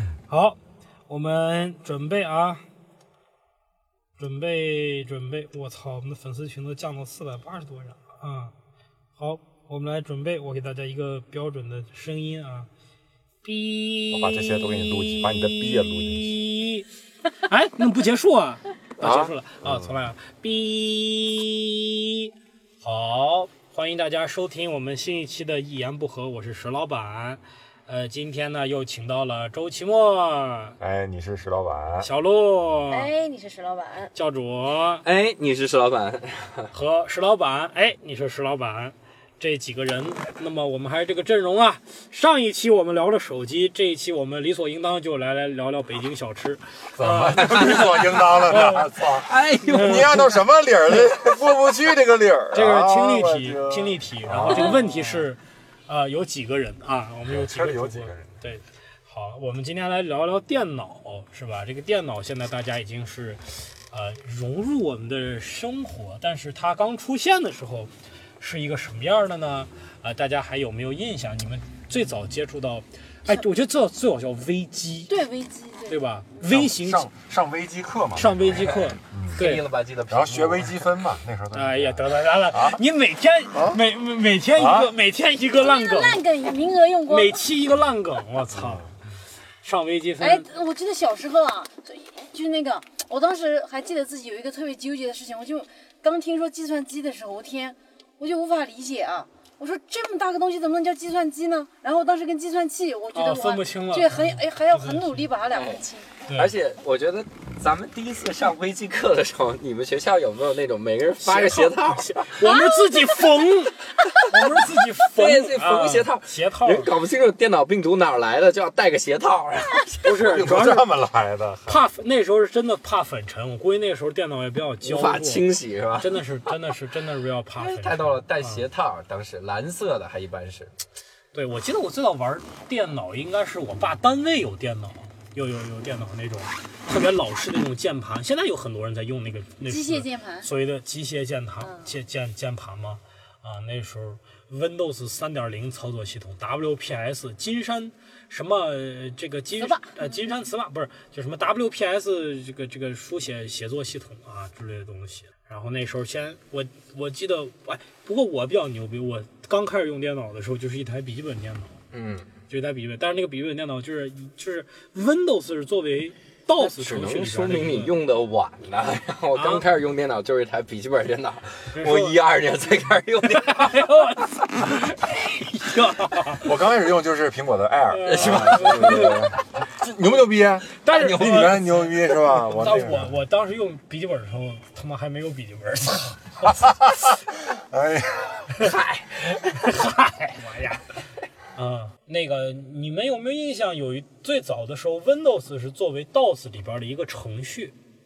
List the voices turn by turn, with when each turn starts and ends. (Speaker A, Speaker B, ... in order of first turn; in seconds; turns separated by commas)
Speaker A: 0.3-0.6, Speaker A: 1.1-2.6, Speaker A: 4.2-8.5, Speaker A: 9.2-12.7, Speaker A: 13.4-22.3, Speaker B: 14.1-16.4, Speaker B: 19.0-20.0, Speaker A: 22.8-30.8, Speaker B: 30.8-32.1, Speaker A: 32.0-33.1, Speaker C: 32.9-34.1, Speaker A: 34.2-35.0, Speaker D: 35.0-36.7, Speaker A: 36.7-48.9, Speaker B: 47.0-55.3, Speaker D: 47.0-48.0, Speaker D: 48.6-50.4, Speaker A: 49.6-50.3, Speaker A: 52.5-75.1, Speaker C: 54.5-54.8, Speaker B: 57.3-58.4, Speaker C: 75.1-76.0, Speaker A: 75.9-77.1, Speaker B: 76.5-79.5, Speaker A: 78.2-79.6, Speaker D: 78.6-80.8, Speaker B: 80.1-82.8, Speaker A: 81.5-86.2, Speaker B: 83.5-83.8, Speaker B: 84.5-84.9, Speaker C: 85.6-87.5, Speaker A: 87.1-88.8, Speaker B: 88.5-88.9, Speaker A: 89.6-90.5, Speaker C: 90.2-106.1, Speaker A: 103.1-105.3, Speaker D: 105.5-112.4, Speaker A: 111.2-116.9, Speaker C: 112.4-113.4, Speaker D: 115.0-120.2, Speaker A: 120.0-120.9, Speaker B: 120.2-121.8, Speaker A: 121.7-125.5, Speaker D: 124.8-126.1, Speaker A: 126.0-128.7, Speaker D: 127.6-130.7, Speaker A: 131.3-161.7, Speaker C: 139.7-140.5, Speaker C: 141.6-142.0, Speaker C: 149.6-150.3, Speaker D: 161.9-162.3, Speaker A: 162.5-167.9, Speaker D: 166.6-173.8, Speaker A: 169.3-169.7, Speaker A: 171.7-172.2, Speaker A: 173.3-176.4, Speaker B: 176.4-183.2, Speaker A: 177.9-179.3, Speaker D: 178.1-179.3, Speaker A: 180.8-186.6, Speaker D: 180.9-181.6, Speaker B: 186.5-188.8, Speaker D: 188.6-189.2, Speaker A: 189.4-190.8, Speaker A: 191.6-197.8